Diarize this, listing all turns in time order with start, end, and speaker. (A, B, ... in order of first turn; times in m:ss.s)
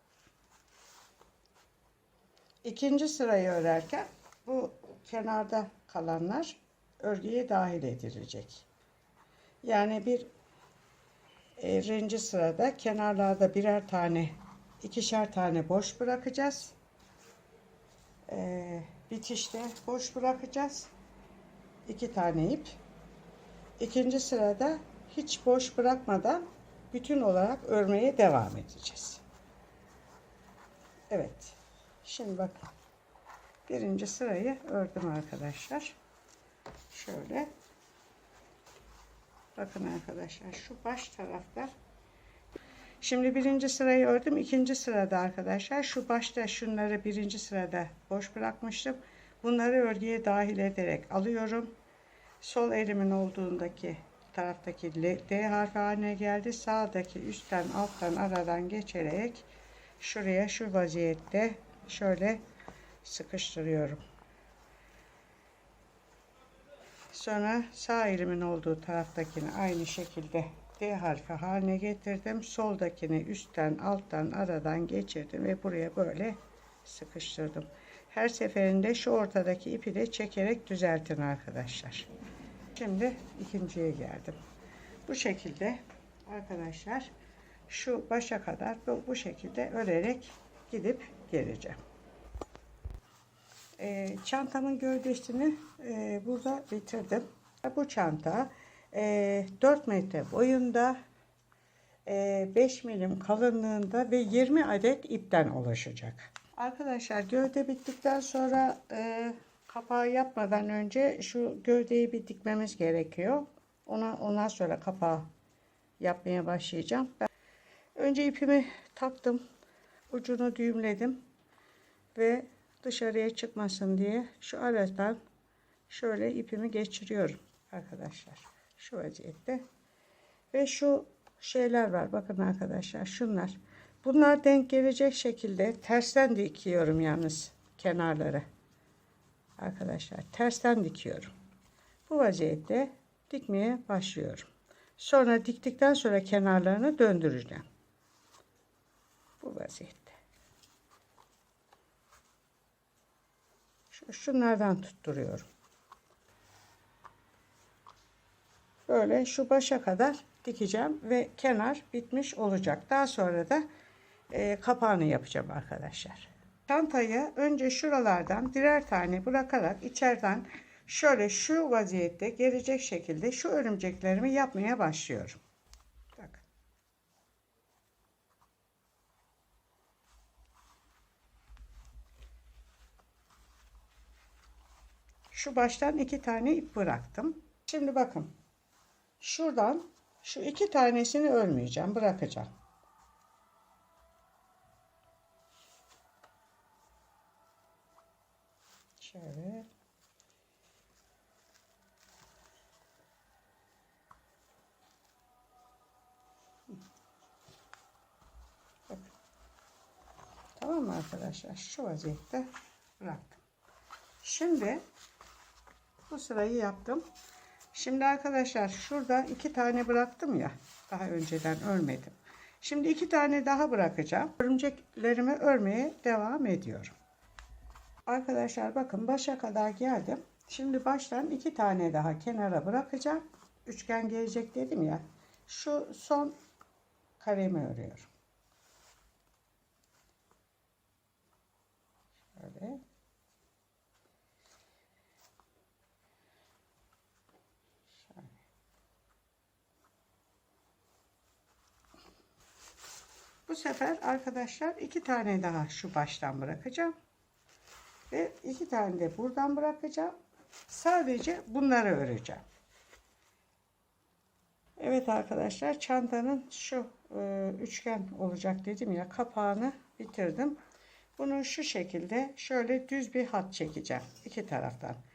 0:02.6-0:08.6 A
0:09.6-0:10.3 A
0:11.6-0:16.7 A
0:18.3-0:20.9 A
0:21.8-0:22.8 A
0:23.8-0:29.2 A
0:31.1-0:32.6 A
0:33.7-0:36.0 A
0:36.9-0:37.5 A
0:39.6-0:41.7 A
0:43.0-0:51.7 A
0:52.4-0:59.5 A
1:00.0-1:02.4 A
1:03.0-1:04.0 A
1:07.1-1:22.1 A
1:22.7-1:24.4 A
1:25.1-1:27.1 A
1:27.7-1:31.8 A
1:33.8-1:41.0 A
1:42.0-1:55.3 A
1:56.0-1:57.3 A
1:58.0-1:59.4 A
2:00.1-2:01.2 A
2:02.1-2:05.2 A
2:05.9-2:09.6 A
2:10.5-2:18.4 A
2:19.6-2:21.3 A
2:22.1-2:27.6 A
2:29.4-2:30.2 A
2:33.9-2:35.5 A
2:38.9-2:43.6 A
2:44.3-2:55.4 A
2:56.1-2:56.4 A
3:05.3-3:08.3 A
3:09.2-3:12.5 A
3:19.0-3:19.7 A
3:30.6-3:33.4 A
3:34.2-3:34.8 A
3:36.1-3:37.0 A
3:37.7-3:46.9 A
3:48.0-3:56.4 A
3:57.2-3:58.1 A
4:02.3-4:02.8 A
4:08.1-4:08.4 A
4:13.5-4:16.9 A
4:18.1-4:20.1 A
4:20.7-4:22.4 A
4:24.8-4:30.6 A
4:31.2-4:35.0 A